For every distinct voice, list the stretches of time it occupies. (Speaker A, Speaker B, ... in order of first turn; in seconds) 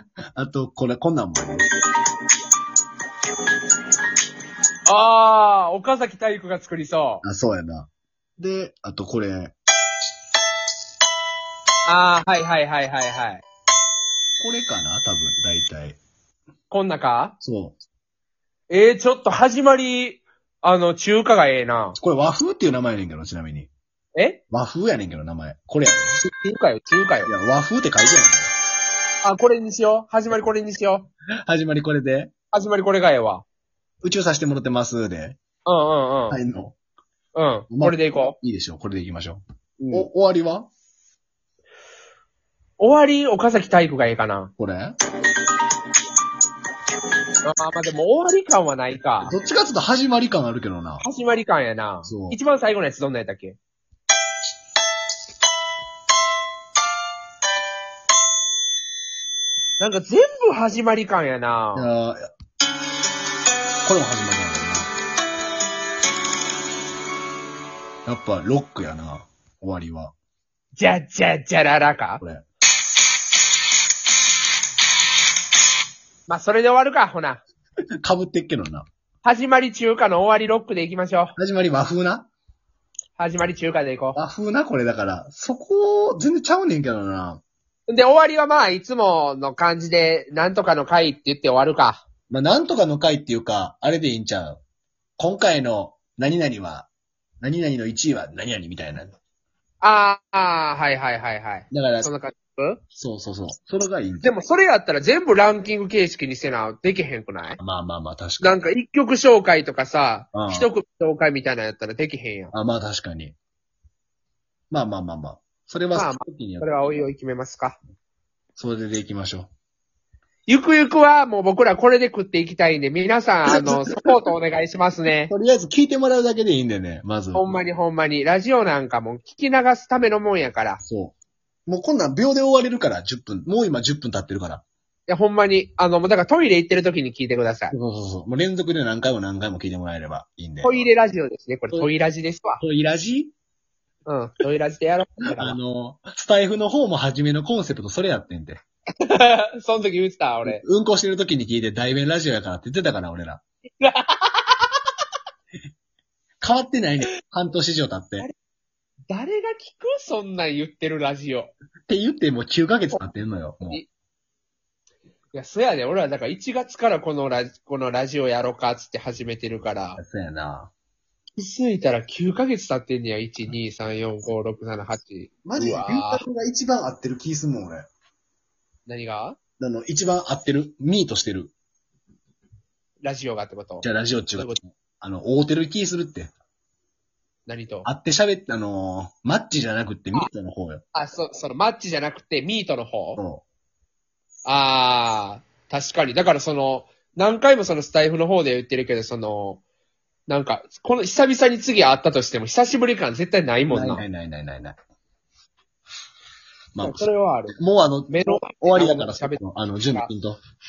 Speaker A: 0.4-1.7, 7.2-9.6, 14.4-16.0, 17.4-17.8, 22.0-23.7, 24.5-26.2, 27.2-28.5, 31.5-32.3, 34.0-35.4, 36.3-36.8, 37.7-40.7, 44.6-45.0, 49.2-51.0, 52.0-52.4, 61.8-62.3, 63.8-64.9, 68.1-70.1, 78.0-78.9, 81.4-82.3, 84.1-87.4, 92.3-94.6, 95.2-96.9, 97.4-99.1, 101.7-102.1, 103.0-104.3, 107.6-108.6, 110.3-110.7, 112.5-113.4, 114.7-116.7, 118.6-119.5, 123.5-123.8, 125.3-127.5, 130.8-131.2, 131.7-134.7, 137.7-140.9, 142.6-143.3, 145.3-148.6, 150.4-153.4, 156.4-158.3, 161.9-163.8, 170.0-170.7, 175.4-177.9, 179.6-181.5, 183.8-186.3, 187.8-190.8, 193.2-193.4, 203.7-204.8, 206.8-210.4
Speaker B: 4.9-7.2, 11.9-13.4, 16.7-17.4, 18.7-22.0, 24.1-24.4, 26.2-27.3, 29.2-31.1, 32.5-33.5, 35.6-36.4, 37.4-38.4, 39.8-40.1, 42.8-44.5, 47.4-49.3, 51.0-53.6, 59.8-61.9, 70.8-72.2, 76.3-77.4, 79.2-81.3, 83.2-84.2, 87.9-92.0, 99.8-102.8, 104.2-107.6, 108.4-112.5, 116.0-117.8, 120.5-125.3, 127.3-130.8, 135.1-137.7, 140.6-142.6, 144.1-145.6, 149.0-150.6, 153.8-154.8, 159.1-161.5, 165.3-170.0, 171.4-176.2, 178.9-179.4, 183.0-184.6, 187.5-187.9, 190.9-193.2, 194.5-199.6, 200.3-204.1, 206.8-207.6, 208.1-210.1